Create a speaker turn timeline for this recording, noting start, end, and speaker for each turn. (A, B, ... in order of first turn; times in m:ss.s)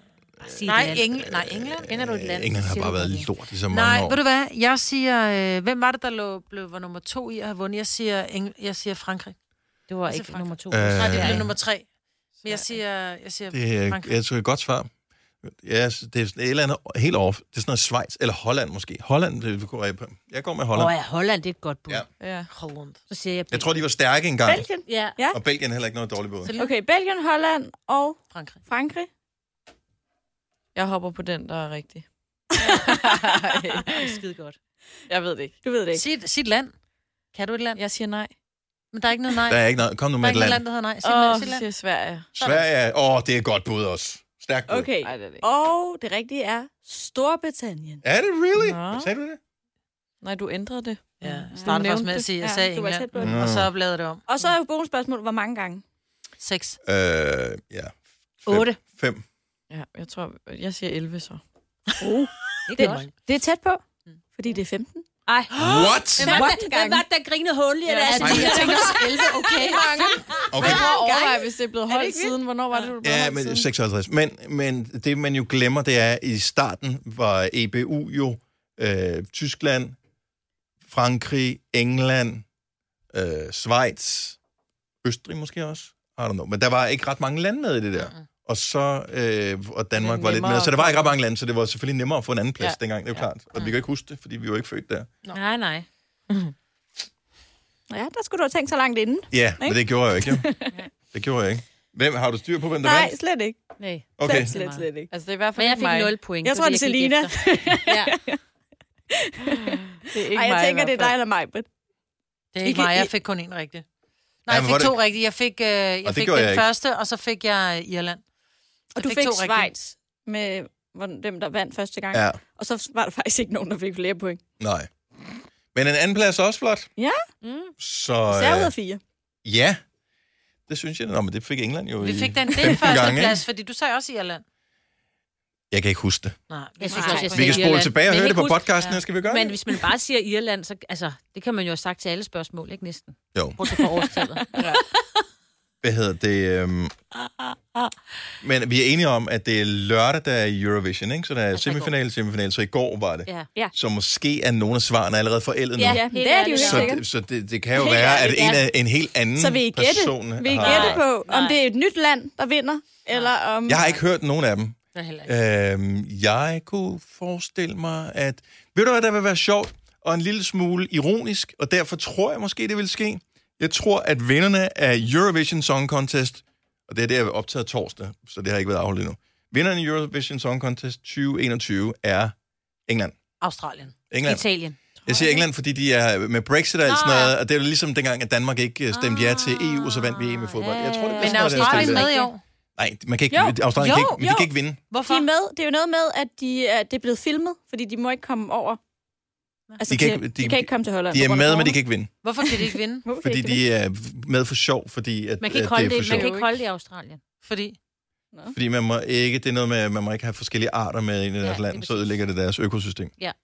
0:00.4-0:04.2 A
0:00.4-0:01.1 B
0:00.6-0:01.9 C
0:01.9-0:03.3 B
0:03.7-0:09.4 C
0:09.9-0:11.5 B
0:10.1-0:11.8 C
0:10.7-0:11.5 A
0:12.4-0:12.7 D
0:12.4-0:14.1 C
0:13.5-0:14.9 A
0:15.4-0:20.9 A
0:20.7-0:22.0 B
0:22.2-0:22.5 D
0:22.5-0:23.0 C
0:23.1-0:23.7 B
0:23.5-0:24.7 A
0:24.4-0:25.4 E
0:24.9-0:25.2 B
0:25.3-0:26.5 A
0:26.4-0:26.7 C
0:26.6-0:29.1 E
0:28.3-0:28.6 C
0:30.7-0:32.0 D
0:32.6-0:34.1 D
0:33.9-0:34.6 B
0:35.1-0:35.6 D
0:35.6-0:36.0 E
0:35.9-0:36.7 C
0:37.3-0:37.8 C
0:37.8-0:38.3 D
0:38.9-0:39.6 C
0:39.5-0:40.6 A
0:40.2-0:41.6 C
0:41.0-0:42.3 D
0:42.4-0:44.9 A
0:44.7-0:48.0 E
0:45.0-0:45.4 D
0:48.0-0:49.4 A
0:48.5-0:49.1 D
0:50.2-0:52.3 D
0:51.2-0:54.2 C
0:52.4-0:53.5 E
0:53.2-0:53.7 A
0:54.3-0:55.8 E
0:56.4-0:56.8 C
0:56.8-0:59.2 A
0:58.5-0:58.8 B
0:59.7-1:01.4 D
1:02.0-1:05.0 E
1:02.7-1:03.0 B
1:02.8-1:03.1 C
1:05.2-1:09.7 B
1:05.6-1:05.9 C
1:05.6-1:06.4 A
1:06.2-1:07.0 E
1:07.9-1:10.0 C
1:08.1-1:12.3 E
1:08.1-1:13.7 D
1:08.2-1:08.6 A
1:10.3-1:10.7 B
1:10.5-1:10.9 A
1:13.0-1:20.0 A
1:20.9-1:22.4 A
1:23.1-1:24.4 A
1:25.0-1:35.1 A
1:28.0-1:28.2 C
1:30.0-1:31.1 D
1:32.6-1:33.2 D
1:35.3-1:35.9 B
1:37.9-1:40.8 E
1:39.3-1:40.4 A
1:41.1-1:43.1 A
1:42.8-1:43.6 E
1:43.8-1:44.9 B
1:44.2-1:44.5 A
1:44.2-1:45.1 E
1:45.1-1:46.1 D
1:45.6-1:48.2 B
1:46.4-1:48.4 E
1:49.1-1:51.7 E
1:50.0-1:51.1 D
1:52.5-1:53.8 C
1:52.6-1:53.1 E
1:54.4-1:58.2 C
1:54.5-1:55.0 A
1:56.0-1:56.7 A
1:59.0-2:04.4 E
1:59.0-1:59.7 C
2:02.1-2:02.4 A
2:04.6-2:04.9 A
2:05.7-2:06.9 A
2:07.0-2:07.2 E
2:07.4-2:07.7 B
2:07.8-2:08.7 A
2:08.3-2:09.0 E
2:09.4-2:09.8 A
2:10.7-2:13.4 A
2:12.0-2:14.4 C
2:15.7-2:16.4 A
2:16.5-2:17.8 C
2:16.8-2:25.0 B
2:16.9-2:17.3 E
2:17.3-2:19.6 A
2:23.3-2:23.6 A
2:25.8-2:26.9 A
2:27.2-2:27.9 B
2:28.4-2:41.0 A
2:31.5-2:31.9 B
2:35.8-2:37.0 B
2:35.9-2:37.0 E
2:37.8-2:38.6 E
2:38.2-2:38.6 B
2:39.4-2:44.0 E
2:40.6-2:41.6 B
2:43.6-3:02.3 A
2:44.9-2:45.3 C
3:02.9-3:03.2 A
3:03.4-3:03.9 C
3:04.1-3:04.4 A
3:04.2-3:04.8 B
3:05.0-3:12.1 A
3:05.0-3:05.4 D
3:06.9-3:07.3 B
3:08.9-3:12.3 B
3:11.2-3:12.4 C
3:12.8-3:14.8 A
3:13.3-3:14.5 E
3:14.9-3:15.3 C
3:15.0-3:18.8 E
3:19.8-3:21.8 E
3:19.9-3:22.1 A
3:22.2-3:23.0 C
3:22.4-3:23.6 E
3:23.2-3:26.3 A
3:25.4-3:27.2 B
3:26.0-3:26.3 C
3:27.4-3:27.8 C
3:28.5-3:33.1 A
3:31.4-3:32.1 B